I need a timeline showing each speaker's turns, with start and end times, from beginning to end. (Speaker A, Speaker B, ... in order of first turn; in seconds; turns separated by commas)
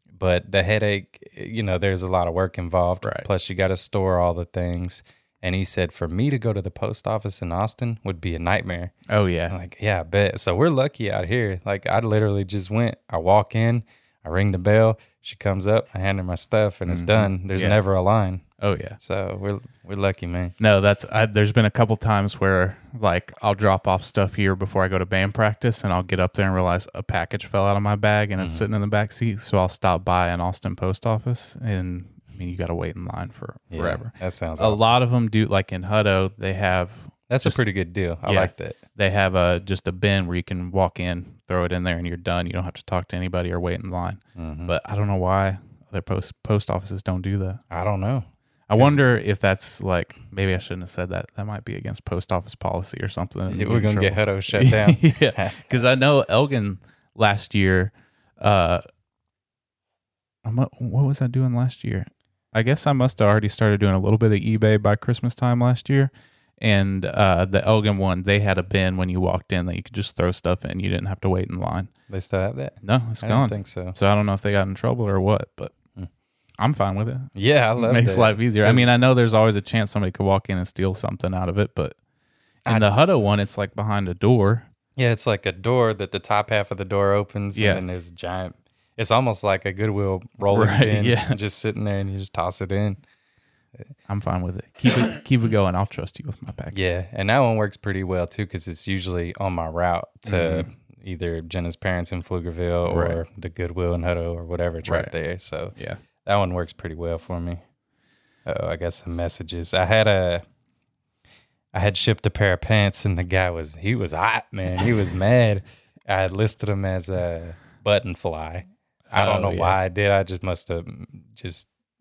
Speaker A: 0.2-8.9, Speaker B: 9.1-9.5, Speaker A: 9.5-18.4, Speaker B: 16.9-17.8, Speaker B: 18.6-19.0, Speaker A: 19.0-20.5, Speaker B: 20.6-37.6, Speaker A: 28.4-28.6, Speaker A: 33.7-34.8, Speaker A: 37.3-38.8, Speaker B: 38.2-47.6, Speaker A: 44.4-44.7, Speaker A: 47.7-48.2, Speaker B: 48.7-58.8, Speaker A: 53.5-55.6, Speaker B: 60.4-71.9, Speaker A: 72.1-74.0, Speaker B: 72.8-75.7, Speaker B: 76.6-82.0, Speaker A: 77.3-78.9, Speaker A: 82.7-82.9, Speaker B: 82.7-84.7, Speaker A: 85.0-93.0, Speaker B: 87.5-87.8, Speaker B: 90.5-91.4, Speaker B: 94.1-96.8, Speaker A: 96.7-105.7, Speaker B: 100.2-100.7, Speaker B: 102.9-103.2, Speaker B: 104.8-105.1, Speaker B: 105.8-106.0, Speaker A: 106.2-107.6, Speaker A: 108.5-110.4, Speaker A: 111.7-121.7, Speaker B: 119.1-119.8